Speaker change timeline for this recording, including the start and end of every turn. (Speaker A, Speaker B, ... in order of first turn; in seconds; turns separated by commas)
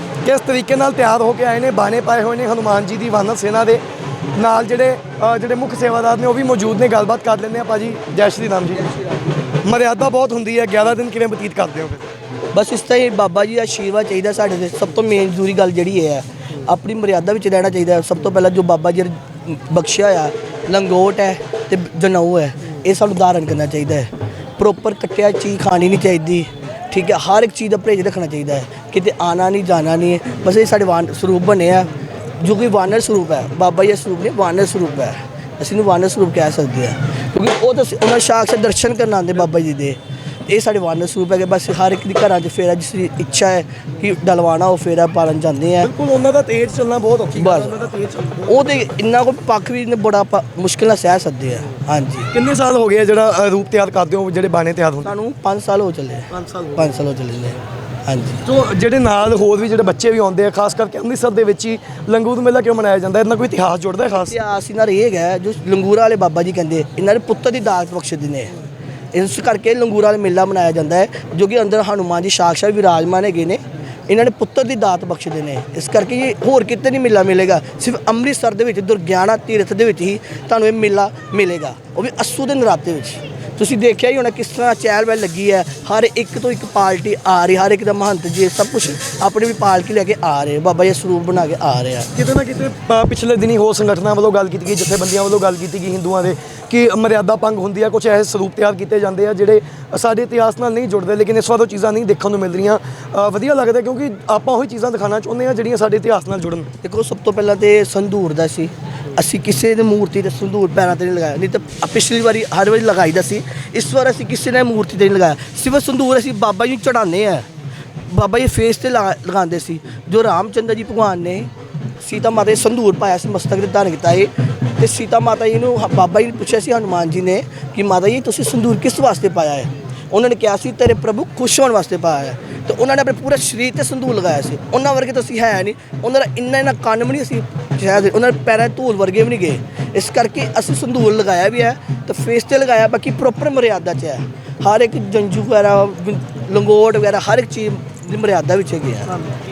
Speaker A: 0.2-3.8, Speaker A: 4.4-8.9, Speaker A: 9.6-12.1, Speaker B: 12.5-40.0, Speaker B: 40.5-45.9, Speaker A: 45.8-48.9, Speaker B: 47.4-47.9, Speaker B: 48.5-52.3, Speaker A: 52.3-55.1, Speaker B: 55.0-58.4, Speaker A: 56.3-56.9, Speaker A: 58.5-64.4, Speaker B: 64.1-68.5, Speaker B: 69.1-92.1, Speaker A: 92.2-106.7, Speaker B: 106.8-117.5, Speaker B: 118.1-121.5, Speaker B: 122.0-149.1